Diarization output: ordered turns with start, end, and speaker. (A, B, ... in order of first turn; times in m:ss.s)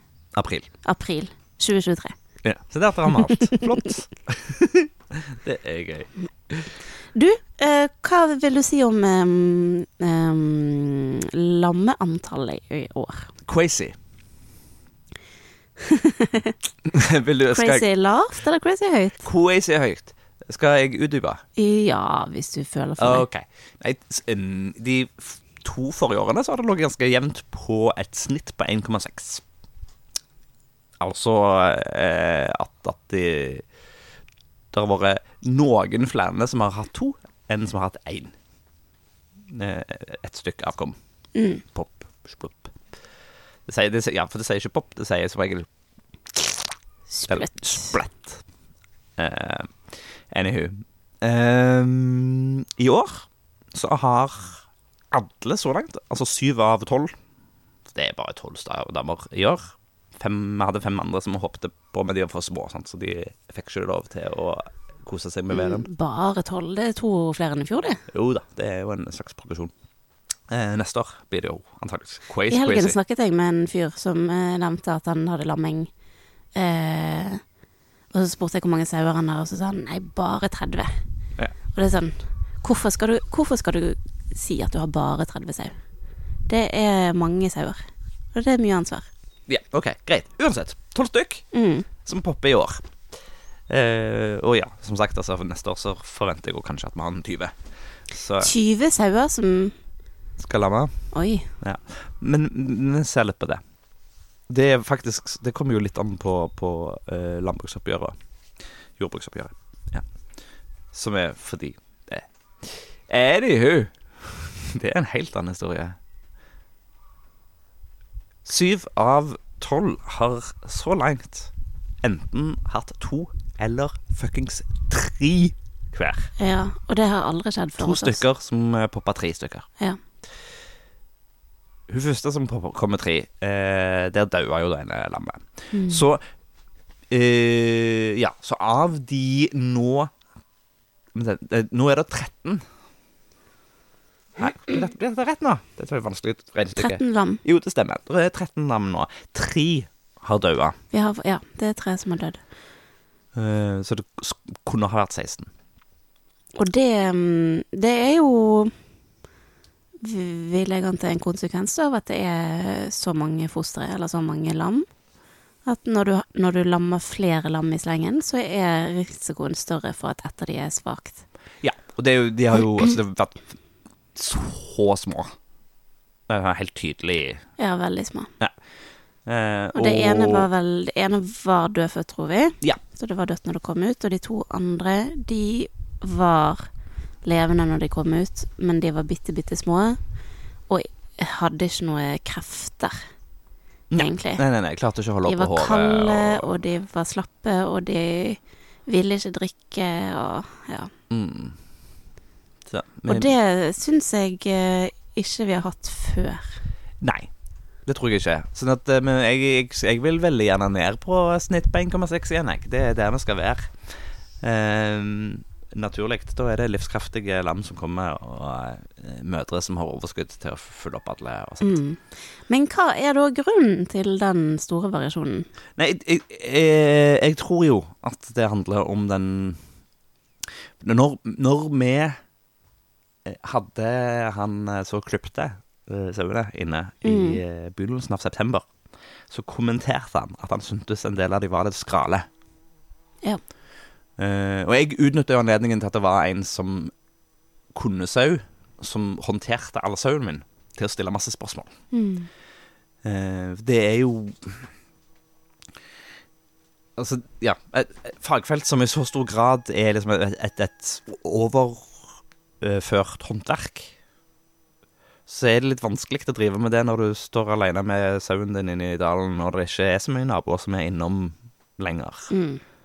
0:00.3-0:00.7 A
0:00.8-0:02.2 B
0:02.4-0:06.7 A
0:03.1-0:03.6 B
0:07.1-0:13.3 B
0:13.4-0:13.9 A
0:15.8-0:16.5 B
0:16.8-0:17.8 A
0:17.5-0:19.2 B
0:19.2-0:21.4 A
0:21.6-0:23.3 B
0:23.0-0:29.4 A
0:31.0-0:33.7 A
0:34.7-0:38.3 A
0:39.5-0:41.0 A
0:41.3-0:41.6 B
0:41.6-0:42.8 A
0:43.7-0:45.7 A
0:47.1-0:48.0 B
0:47.3-0:48.4 A
0:49.2-0:57.2 A
0:57.9-1:05.9 A
1:05.5-1:08.0 B
1:08.1-1:09.7 A
1:10.5-1:13.0 A
1:12.5-1:15.9 B
1:16.5-1:17.4 B
1:18.1-1:21.0 B
1:21.7-1:25.8 B
1:26.5-1:27.8 B
1:28.3-1:29.1 B
1:29.5-1:31.5 A
1:31.5-1:31.9 B
1:32.0-1:33.0 A
1:33.7-1:38.5 A
1:38.4-1:39.7 B
1:40.4-1:43.6 A
1:41.1-1:41.5 B
1:44.5-1:50.0 A
1:50.9-1:56.0 A
1:58.4-2:06.3 A
2:06.4-2:08.2 B
2:07.8-2:09.7 A
2:11.9-2:16.2 A
2:15.7-2:16.0 B
2:17.1-2:20.1 A
2:21.1-2:22.6 A
2:24.4-2:30.8 A
2:26.8-2:27.4 B
2:30.9-2:32.4 B
2:33.3-2:35.5 A
2:36.6-2:38.7 B
2:40.0-2:44.8 B
2:45.6-2:51.2 B
2:51.6-2:53.6 A
2:54.1-2:55.3 A
2:56.3-2:57.4 A
2:57.6-2:58.3 B
2:59.2-3:00.5 A
2:59.7-3:06.7 B
3:07.2-3:10.0 B
3:10.7-3:13.1 B
3:13.9-3:16.4 A
3:14.0-3:14.4 B
3:15.2-3:20.9 B
3:21.1-3:21.6 A
3:22.6-3:23.3 A
3:23.1-3:26.6 B
3:27.0-3:27.3 A
3:27.8-3:41.8 A
3:41.6-3:45.5 B
3:45.8-3:49.6 A
3:50.8-3:52.2 A
3:53.2-3:58.7 A
3:57.0-3:57.4 B
3:59.3-4:02.3 A
4:04.2-4:06.9 A
4:07.7-4:11.7 A
4:11.9-4:12.3 B
4:13.0-4:14.7 A
4:17.0-4:23.9 A
4:25.3-4:32.3 A
4:32.3-4:32.6 B